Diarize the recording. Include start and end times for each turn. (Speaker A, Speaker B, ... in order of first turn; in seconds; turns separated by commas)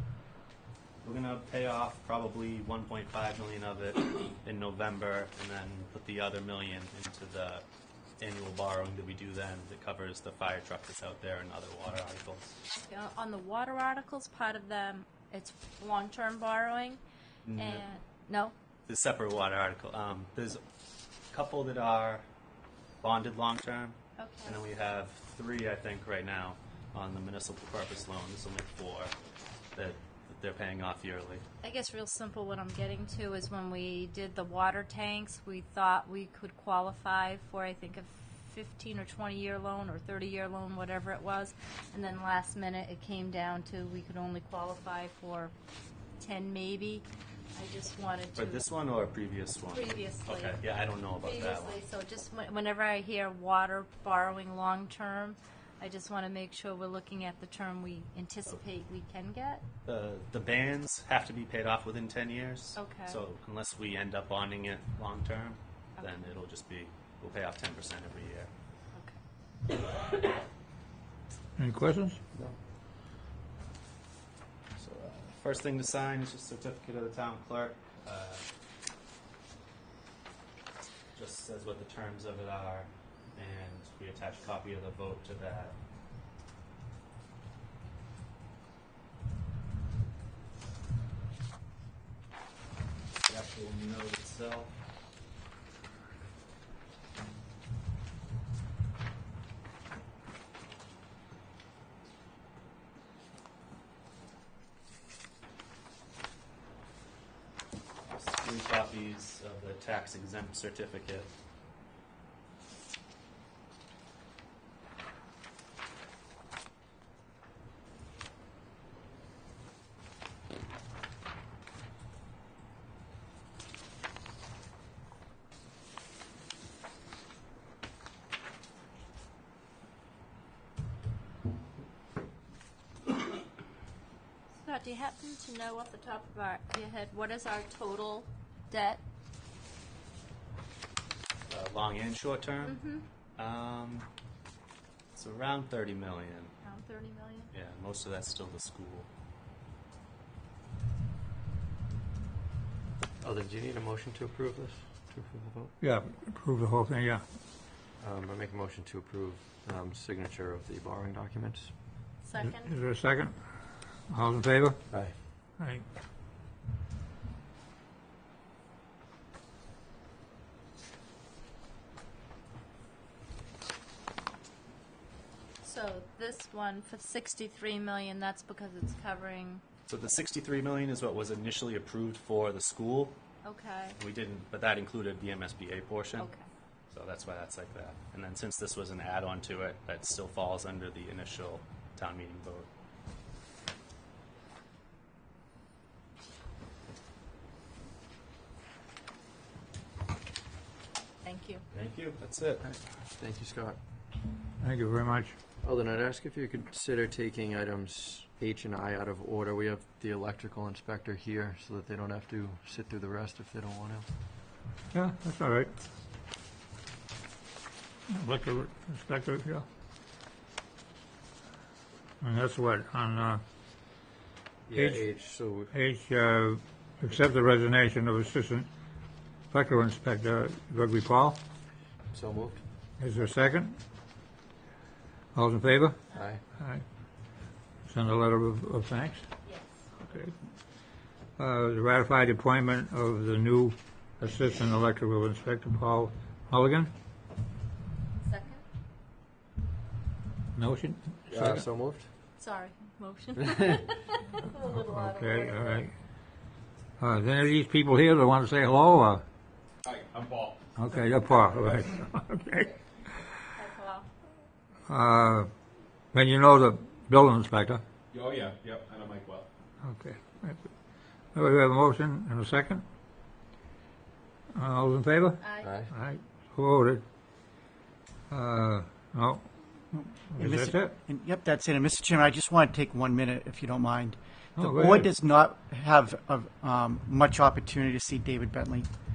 Speaker A: 1.0-7.6, Speaker A: 8.2-12.6, Speaker B: 12.8-17.0, Speaker A: 17.5-17.8, Speaker B: 17.6-18.5, Speaker A: 18.9-20.6, Speaker A: 21.3-22.2, Speaker A: 23.0-29.1, Speaker B: 24.2-24.6, Speaker A: 29.8-31.4, Speaker B: 31.6-45.5, Speaker B: 46.2-48.7, Speaker A: 48.4-51.8, Speaker B: 49.7-50.6, Speaker B: 51.2-59.6, Speaker A: 59.9-68.5, Speaker B: 62.8-63.2, Speaker B: 66.0-66.3, Speaker B: 68.9-69.2, Speaker C: 71.6-72.2, Speaker A: 75.0-78.4, Speaker A: 81.2-85.8, Speaker A: 93.3-94.7, Speaker A: 108.1-111.3, Speaker B: 134.6-139.0, Speaker A: 141.5-142.8, Speaker B: 142.6-143.1, Speaker A: 143.4-144.1, Speaker A: 145.2-146.5, Speaker B: 146.6-147.5, Speaker A: 147.5-149.1, Speaker D: 153.2-155.7, Speaker C: 155.8-157.2, Speaker D: 158.0-161.7, Speaker B: 162.2-162.7, Speaker C: 162.5-163.3, Speaker C: 164.1-164.8, Speaker D: 164.9-165.2, Speaker C: 165.6-165.8, Speaker B: 175.6-179.6, Speaker A: 179.9-183.2, Speaker B: 183.4-184.0, Speaker A: 184.0-186.3, Speaker B: 186.2-186.5, Speaker A: 186.9-192.7, Speaker B: 201.2-201.6, Speaker A: 201.7-202.7, Speaker D: 202.6-203.8, Speaker C: 204.6-205.4, Speaker D: 205.6-214.1, Speaker C: 214.9-215.7, Speaker C: 218.1-219.7, Speaker C: 222.2-223.4, Speaker D: 224.7-225.7, Speaker C: 224.7-225.1, Speaker C: 225.7-228.7, Speaker C: 229.5-231.4, Speaker D: 232.1-232.6, Speaker C: 233.0-233.8, Speaker C: 235.3-236.1, Speaker D: 236.1-236.4, Speaker C: 236.6-236.8, Speaker C: 237.9-239.2, Speaker B: 239.4-239.7, Speaker C: 240.1-240.3, Speaker C: 241.4-246.9, Speaker B: 248.2-248.6, Speaker C: 250.6-251.7, Speaker D: 251.3-252.1, Speaker B: 252.4-255.8, Speaker C: 254.7-255.9, Speaker C: 257.0-259.2, Speaker E: 259.8-260.7, Speaker C: 260.8-262.7, Speaker B: 263.6-264.1, Speaker C: 264.9-265.5, Speaker C: 266.1-267.8, Speaker E: 268.1-269.5, Speaker C: 269.8-270.7, Speaker C: 271.4-272.8, Speaker C: 274.5-277.0, Speaker B: 275.4-275.7, Speaker D: 275.6-275.9, Speaker C: 278.3-279.4, Speaker F: 279.9-288.9, Speaker C: 280.3-280.9, Speaker C: 284.6-285.1